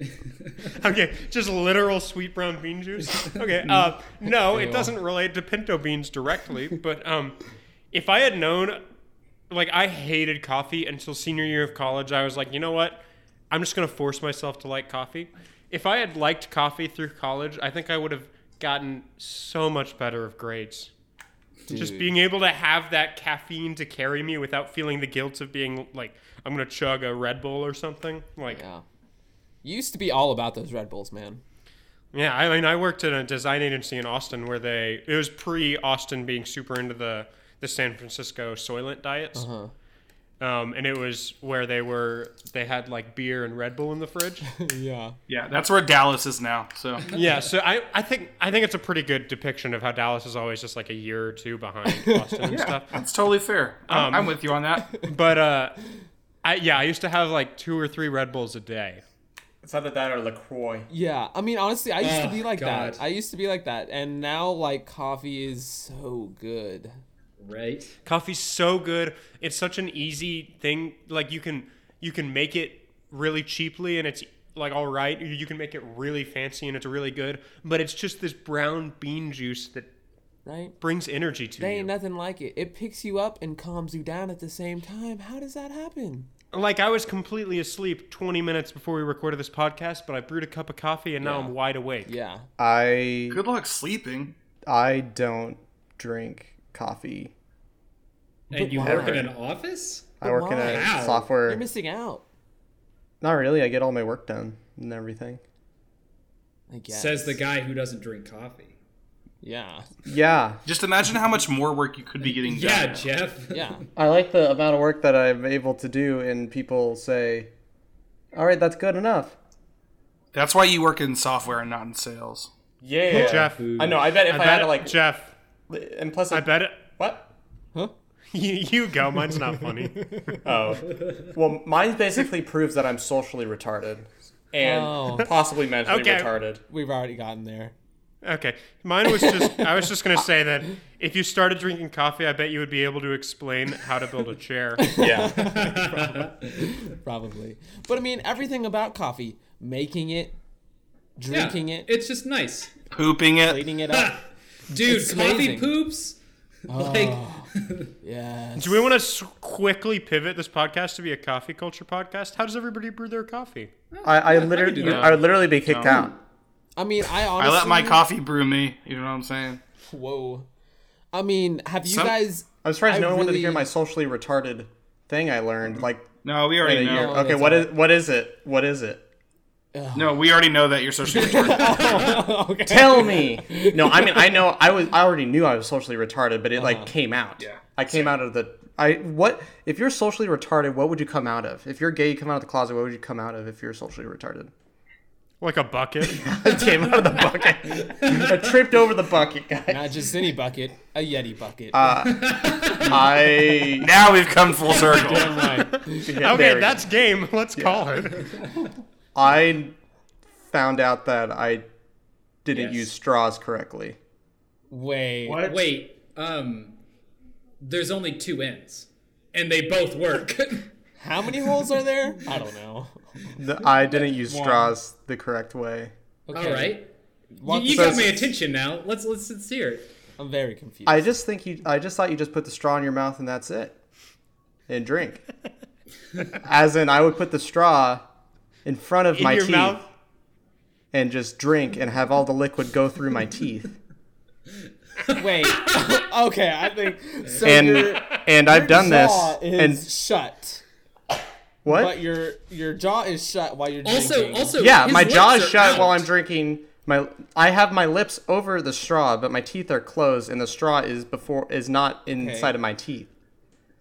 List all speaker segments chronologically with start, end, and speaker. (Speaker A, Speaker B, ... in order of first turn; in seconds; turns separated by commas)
Speaker A: 0.7-8.8, Speaker B: 3.6-3.9, Speaker C: 4.5-4.9, Speaker A: 9.5-20.9, Speaker C: 21.7-22.2, Speaker A: 21.7-28.6, Speaker C: 28.5-28.8, Speaker C: 29.6-31.4, Speaker A: 32.1-39.5, Speaker C: 39.3-39.7, Speaker A: 40.4-44.5, Speaker C: 44.4-45.1, Speaker B: 45.3-47.1, Speaker A: 47.1-53.0, Speaker C: 51.9-52.6, Speaker B: 52.5-55.0, Speaker A: 53.9-54.4, Speaker A: 55.0-55.8, Speaker A: 56.4-59.0, Speaker D: 59.6-60.9, Speaker C: 60.9-67.0, Speaker E: 62.0-63.0, Speaker E: 67.4-67.9, Speaker A: 68.0-79.9, Speaker C: 80.4-80.7, Speaker A: 80.8-81.9, Speaker C: 81.6-86.3, Speaker A: 86.5-92.1, Speaker C: 91.2-92.5, Speaker D: 92.6-93.4, Speaker B: 93.3-94.3, Speaker D: 94.7-97.3, Speaker E: 98.5-101.3, Speaker C: 98.5-99.3, Speaker D: 98.8-99.3, Speaker D: 100.2-101.6, Speaker C: 100.2-100.9, Speaker C: 101.5-102.2, Speaker D: 103.2-105.4, Speaker C: 106.7-107.4, Speaker E: 106.9-108.8, Speaker C: 109.4-109.9, Speaker D: 110.0-110.6, Speaker B: 110.7-113.1, Speaker E: 112.3-113.8, Speaker C: 113.5-113.8, Speaker D: 114.0-117.5, Speaker D: 118.3-119.3, Speaker B: 120.3-122.5, Speaker D: 122.8-125.0, Speaker C: 123.1-123.4, Speaker A: 123.1-125.3, Speaker E: 123.6-124.0, Speaker D: 125.7-127.3, Speaker A: 126.3-126.9, Speaker A: 128.3-130.4, Speaker C: 129.8-130.4, Speaker D: 130.4-136.6, Speaker C: 134.6-135.3, Speaker A: 135.8-136.3, Speaker C: 136.7-137.7, Speaker A: 138.2-145.1, Speaker C: 139.1-139.8, Speaker C: 144.8-150.3, Speaker D: 144.9-145.4, Speaker E: 145.4-146.7, Speaker C: 151.2-151.9, Speaker E: 151.3-152.7, Speaker B: 152.9-153.6, Speaker C: 153.4-154.2, Speaker E: 153.9-156.2, Speaker C: 154.7-155.8, Speaker C: 156.7-158.9, Speaker E: 156.7-157.9, Speaker A: 158.6-163.7, Speaker E: 163.9-165.2, Speaker D: 164.0-166.1, Speaker B: 164.8-165.9, Speaker C: 166.8-168.0, Speaker B: 167.4-169.6, Speaker C: 169.9-170.5, Speaker C: 171.1-173.7, Speaker B: 171.9-172.2, Speaker D: 172.6-176.1, Speaker B: 175.8-177.1, Speaker D: 176.6-179.0, Speaker C: 176.7-177.7, Speaker C: 179.7-180.2, Speaker B: 179.9-182.0, Speaker C: 181.1-184.5, Speaker E: 181.6-182.0, Speaker D: 182.7-194.5, Speaker C: 186.5-186.9, Speaker B: 187.4-188.2, Speaker A: 195.4-196.4, Speaker D: 196.0-200.0, Speaker E: 197.7-198.4, Speaker C: 199.7-202.0, Speaker D: 201.7-203.9, Speaker E: 202.0-203.1, Speaker B: 203.8-205.4, Speaker E: 204.7-205.6, Speaker C: 204.7-206.1, Speaker A: 205.8-208.4, Speaker D: 206.0-206.8, Speaker D: 207.5-208.1, Speaker D: 209.1-209.8, Speaker D: 210.4-211.7, Speaker D: 212.4-214.0, Speaker E: 212.5-212.9, Speaker C: 214.7-215.5, Speaker B: 215.2-215.6, Speaker E: 215.4-216.8, Speaker E: 217.6-220.7, Speaker C: 221.0-224.7, Speaker D: 223.3-225.9, Speaker C: 226.3-226.8, Speaker E: 226.3-226.9, Speaker C: 227.4-228.3, Speaker E: 227.4-229.9, Speaker D: 227.7-228.2, Speaker C: 230.2-231.1, Speaker D: 230.8-233.8, Speaker D: 234.7-235.2, Speaker D: 236.3-238.0, Speaker D: 238.6-239.8, Speaker A: 239.1-239.8, Speaker D: 240.9-243.7, Speaker E: 245.1-245.9, Speaker C: 245.1-250.6, Speaker D: 247.4-249.8, Speaker D: 251.6-252.0, Speaker C: 251.7-254.6, Speaker E: 253.8-256.1, Speaker D: 254.6-263.1, Speaker C: 262.1-262.5